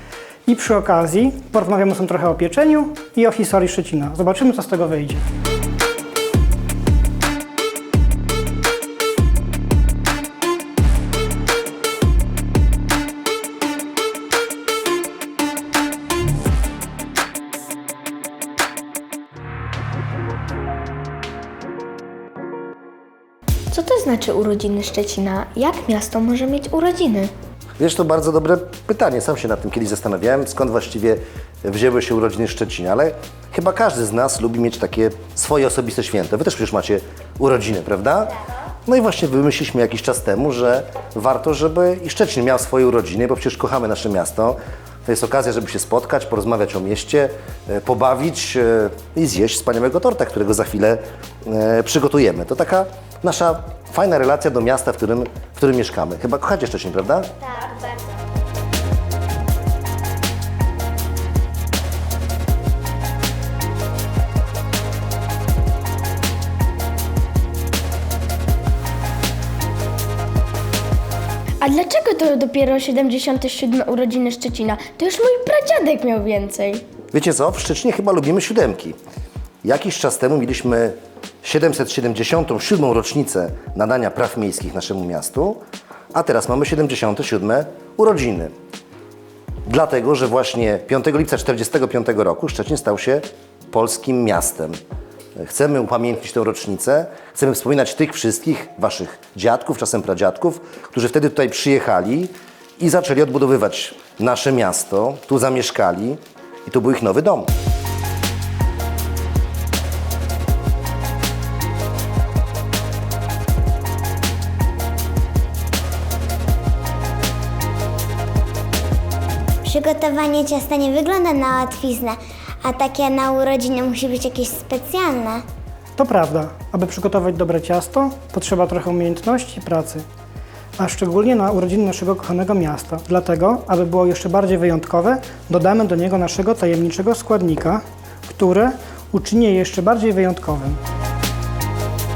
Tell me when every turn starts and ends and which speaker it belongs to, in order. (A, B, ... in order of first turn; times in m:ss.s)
0:00.5-0:05.3 A
0:23.7-0:27.3 B
0:27.8-0:57.3 C
1:11.6-1:16.8 B
1:17.1-1:19.0 C
1:19.6-1:25.6 C
1:26.1-1:28.5 C
1:29.7-1:34.8 C
1:35.4-1:47.5 C
1:59.6-2:05.4 D
2:06.0-2:10.0 A
2:10.8-2:20.8 A